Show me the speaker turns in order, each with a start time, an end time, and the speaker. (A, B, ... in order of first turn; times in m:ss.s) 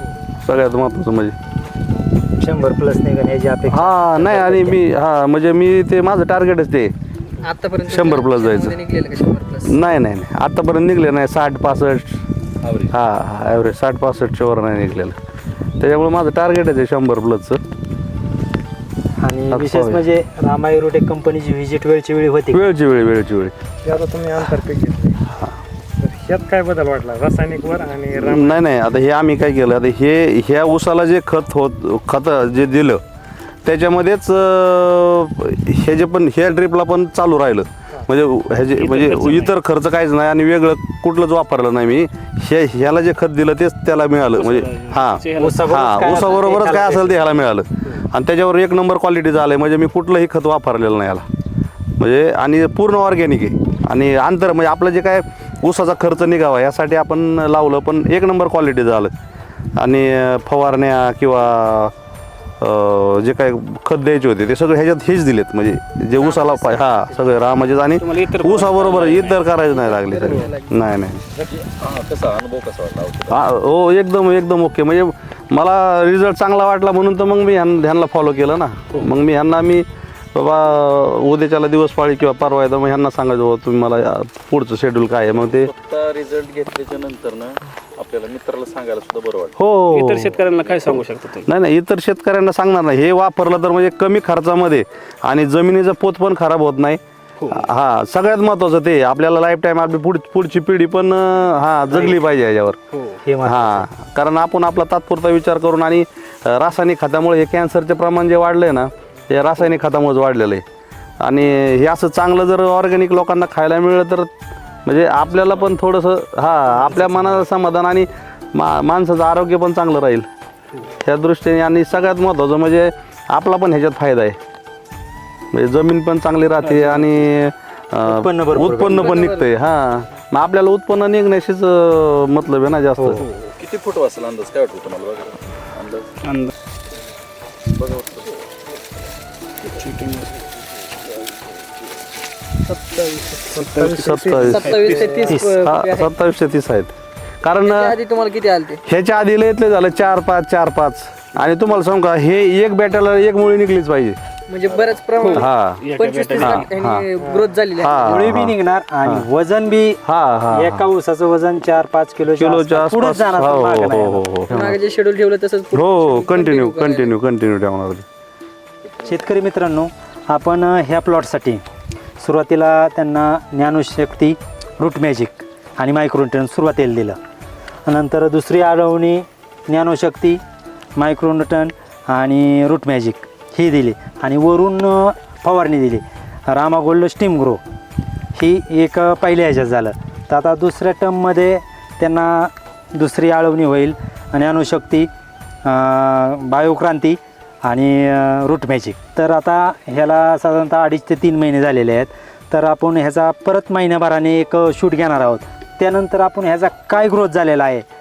0:00.4-0:01.4 A
0:02.4-0:04.8 B
0:03.7-0:06.9 A
0:07.4-0:09.8 C
0:07.8-0:08.8 A
0:09.7-0:12.2 A
0:12.6-0:12.9 D
0:12.9-0:15.2 A
0:15.8-0:17.6 A
0:19.2-0:22.6 B
0:19.5-0:20.0 A
0:22.5-0:23.5 A
0:23.8-0:25.2 E
0:26.0-0:28.6 E
0:28.1-0:33.0 A
0:33.6-0:51.2 A
0:38.8-0:39.5 F
0:44.3-0:45.6 F
0:45.4-0:47.3 B
0:52.0-0:59.1 A
0:59.8-1:01.9 A
1:02.6-1:11.2 A
1:06.2-1:07.8 C
1:07.9-1:09.4 F
1:09.6-1:10.8 C
1:10.2-1:10.5 F
1:11.4-1:13.4 D
1:13.3-1:25.7 A
1:25.4-1:29.6 D
1:29.6-1:42.8 A
1:29.9-1:31.5 F
1:37.4-1:37.7 F
1:42.9-1:43.2 F
1:43.2-1:43.9 B
1:43.4-1:50.6 A
1:51.2-1:54.3 A
1:54.8-2:00.3 A
2:01.0-2:04.4 A
2:05.5-2:13.2 A
2:06.6-2:07.1 F
2:08.0-2:09.2 B
2:09.0-2:09.5 C
2:13.5-2:16.1 D
2:16.2-2:16.5 F
2:17.7-2:18.5 D
2:19.6-2:20.3 F
2:22.7-2:23.6 C
2:23.5-2:25.0 F
2:23.6-2:25.4 E
2:23.9-2:24.8 A
2:24.2-2:26.1 C
2:25.5-2:27.9 A
2:27.6-2:28.8 C
2:28.9-2:34.2 A
2:34.5-2:38.1 C
2:34.7-2:35.0 D
2:35.2-2:36.7 F
2:35.3-2:37.0 A
2:37.2-2:37.5 E
2:37.8-2:39.2 A
2:38.0-2:44.3 B
2:40.0-2:40.8 A
2:42.3-2:44.8 A
2:44.5-2:47.1 C
2:45.7-2:48.0 A
2:49.0-2:51.6 B
2:52.2-2:57.2 B
2:57.8-3:00.4 B
3:01.0-3:07.6 B
3:08.3-3:15.1 B
3:15.6-3:27.8 B